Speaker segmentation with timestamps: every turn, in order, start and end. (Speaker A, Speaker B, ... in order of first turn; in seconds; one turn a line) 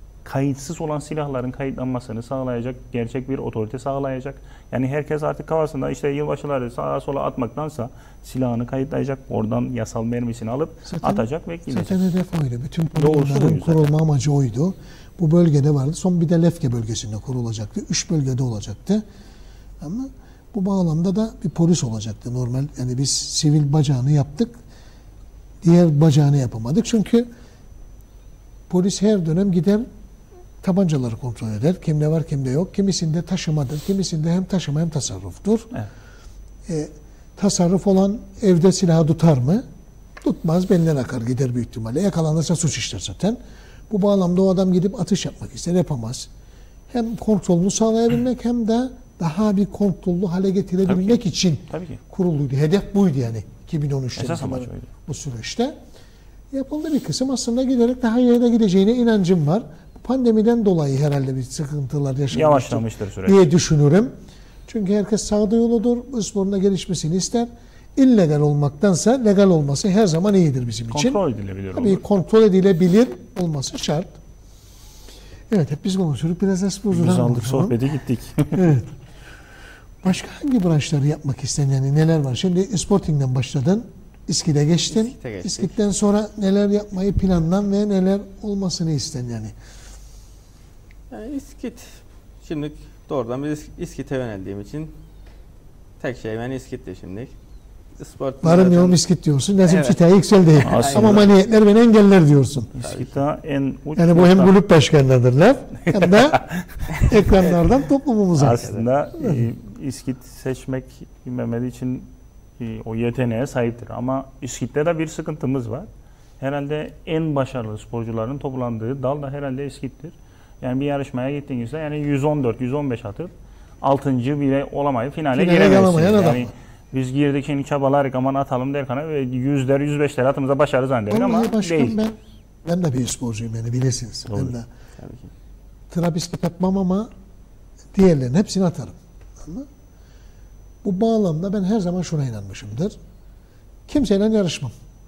Speaker A: 0.2-12.0
Speaker B: 10.8-19.0
Speaker A: 13.0-13.9
Speaker B: 19.8-24.6
Speaker B: 25.6-27.3
Speaker B: 28.7-29.9
Speaker B: 30.6-35.7
Speaker B: 36.6-39.6
Speaker B: 40.2-43.4
Speaker B: 43.9-46.3
Speaker B: 46.9-55.7
Speaker A: 50.8-52.0
Speaker A: 54.1-54.9
Speaker B: 56.5-64.1
Speaker A: 62.3-63.4
Speaker B: 64.7-71.2
Speaker A: 70.9-72.0
Speaker B: 71.7-74.2
Speaker B: 75.5-77.8
Speaker A: 76.9-78.7
Speaker B: 78.5-78.9
Speaker B: 80.0-89.5
Speaker C: 84.9-85.7
Speaker C: 91.1-94.9
Speaker C: 96.0-97.3
Speaker C: 98.0-99.0
Speaker B: 98.4-102.7
Speaker C: 99.6-100.0
Speaker C: 100.5-101.3
Speaker A: 100.6-101.3
Speaker A: 102.7-104.6
Speaker C: 102.8-103.2
Speaker B: 104.0-106.4
Speaker A: 105.9-107.1
Speaker B: 107.0-108.7
Speaker A: 108.3-115.9
Speaker C: 108.6-108.8
Speaker B: 109.2-109.5
Speaker A: 116.4-123.3
Speaker A: 123.8-132.0
Speaker B: 125.3-126.5
Speaker B: 131.1-134.7
Speaker A: 134.3-134.6
Speaker C: 135.0-135.3
Speaker B: 135.9-137.1
Speaker B: 137.9-139.7
Speaker B: 140.8-143.0
Speaker B: 143.9-144.7